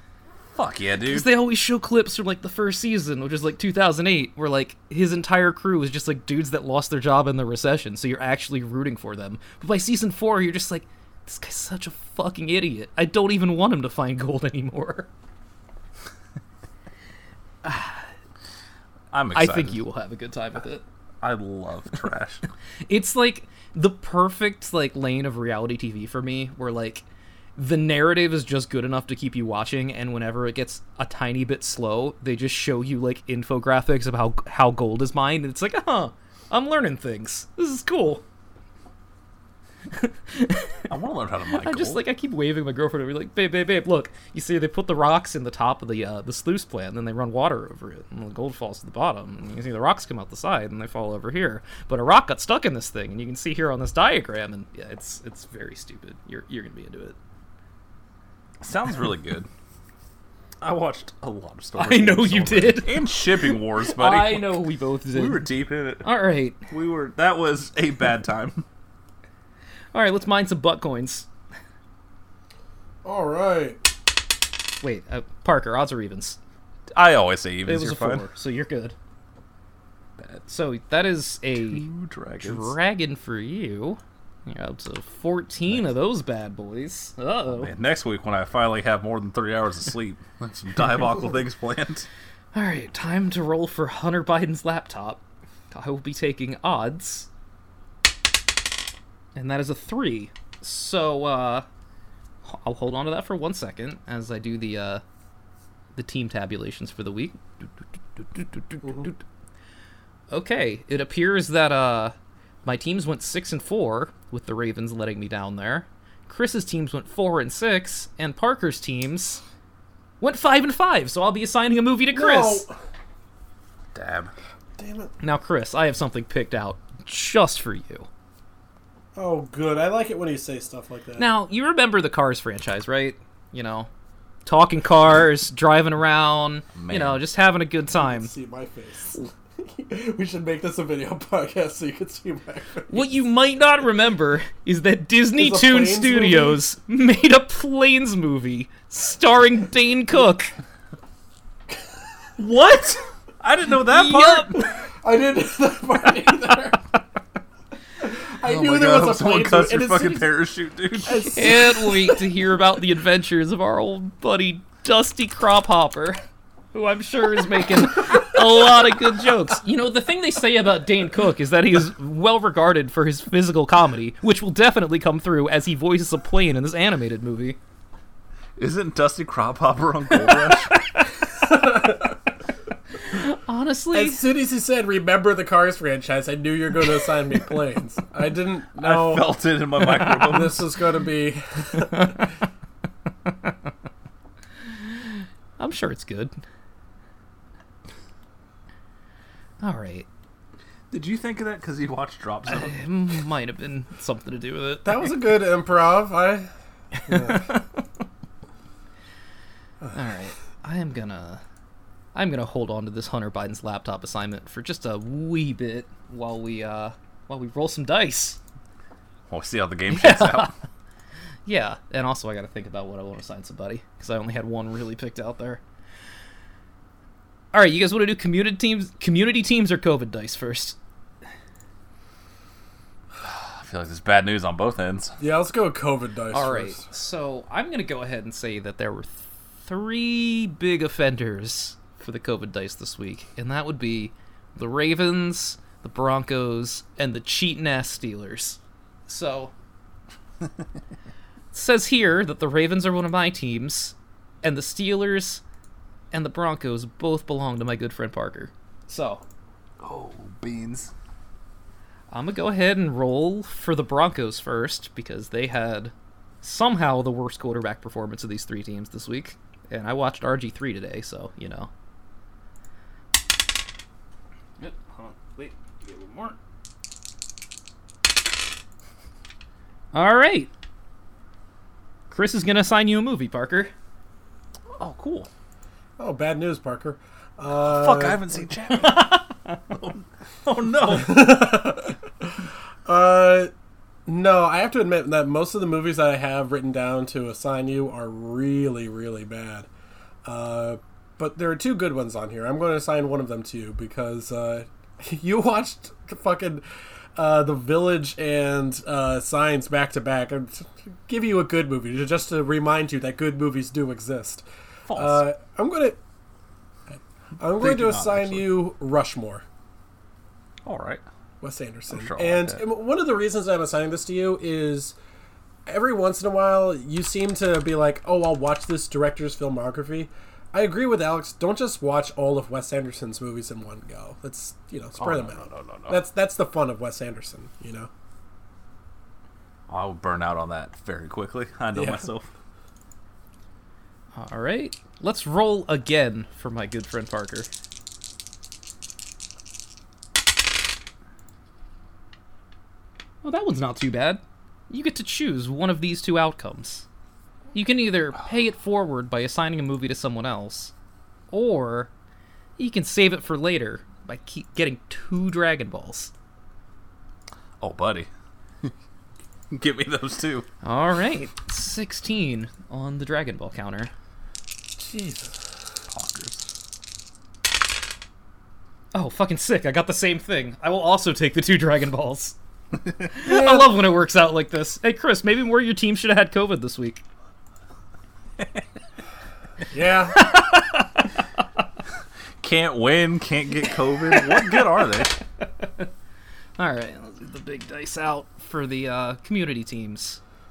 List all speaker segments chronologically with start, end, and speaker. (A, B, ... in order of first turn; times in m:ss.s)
0:00.5-0:01.3 A
0:01.0-0:15.1 B
0:17.6-0:18.1 B
0:19.1-0:19.8 A
0:19.3-0:20.8 B
0:21.2-0:22.4 A
0:22.8-0:27.0 B
0:27.6-0:38.2 B
0:39.9-0:40.9 B
0:40.9-0:42.0 A
0:41.4-0:57.2 B
0:58.6-0:59.5 A
1:00.6-1:06.1 A
1:01.8-1:05.5 B
1:06.0-1:06.6 B
1:06.7-1:08.6 A
1:09.9-1:11.3 B
1:13.0-1:13.8 C
1:14.8-1:16.4 B
1:16.9-1:18.3 A
1:17.6-1:19.0 B
1:20.2-1:20.4 A
1:20.5-1:21.8 B
1:21.6-1:22.7 A
1:22.4-1:27.7 B
1:27.5-1:32.1 A
1:32.5-1:37.3 B
1:39.3-1:41.6 B
1:42.4-1:45.0 B
1:45.9-1:49.2 B
1:50.3-1:59.4 B
2:00.2-2:02.7 B
2:02.1-2:02.8 C
2:03.9-2:04.3 A
2:04.8-2:05.1 C
2:05.2-2:08.1 B
2:09.1-2:11.3 C
2:11.2-2:13.9 B
2:14.4-2:18.3 B
2:16.8-2:17.2 A
2:17.9-2:23.2 C
2:22.9-2:30.5 B
2:25.4-2:26.6 C
2:32.4-2:34.7 A
2:33.8-2:34.7 B
2:35.0-2:36.8 C
2:38.0-2:40.3 C
2:38.4-2:41.3 A
2:41.0-2:42.3 C
2:41.2-2:46.2 B
2:46.7-2:57.6 B
2:58.6-3:00.9 A
3:00.5-3:01.0 B
3:01.4-3:02.1 C
3:02.9-3:04.2 B
3:03.9-3:09.3 C
3:08.8-3:10.7 A
3:09.8-3:10.6 B
3:10.2-3:12.2 C
3:11.8-3:12.3 B
3:13.2-3:13.5 B
3:14.7-3:16.4 B
3:19.6-3:20.1 B
3:20.9-3:22.8 A
3:22.5-3:25.1 B
3:24.8-3:26.5 C
3:27.0-3:27.5 C
3:27.1-3:27.6 B
3:29.9-3:31.4 B
3:32.1-3:38.4 B
3:39.3-3:40.5 A
3:39.9-3:40.5 B
3:41.4-3:45.6 B
3:47.5-3:50.8 B
3:53.2-3:55.2 A
3:55.2-3:56.8 C
3:56.3-4:09.5 B
4:11.5-4:15.4 B
4:16.1-4:19.2 B
4:19.8-4:20.9 A
4:22.1-4:31.7 B
4:34.6-4:36.4 B
4:39.9-4:40.5 B
4:42.1-4:43.7 B
4:44.8-4:45.3 A
4:46.0-4:48.4 C
4:47.6-4:51.5 A
4:48.9-4:49.2 B
4:50.9-4:52.3 C
4:52.8-4:53.5 C
4:54.0-4:59.7 C
5:00.2-5:06.6 C
5:07.2-5:16.0 C
5:14.9-5:15.2 A
5:16.9-5:19.4 C
5:17.5-5:18.6 A
5:20.6-5:21.0 A
5:21.4-5:25.0 C
5:21.9-5:22.6 A
5:25.7-5:37.9 C
5:35.0-5:36.0 A
5:39.7-5:42.3 A
5:41.7-5:42.1 C
5:44.2-5:47.5 B
5:53.2-5:56.8 B
5:57.5-6:00.7 B
6:01.3-6:01.9 B
6:02.6-6:06.1 B
6:07.6-6:08.1 A
6:09.5-6:10.5 A
6:10.6-6:13.9 B
6:14.8-6:15.4 C
6:15.9-6:16.4 A
6:18.9-6:22.4 B
6:23.1-6:27.0 B
6:23.2-6:23.7 C
6:29.7-6:30.2 C
6:30.2-6:30.9 B
6:32.4-6:35.2 A
6:34.1-6:34.8 B
6:35.4-6:35.9 B
6:36.6-6:40.2 B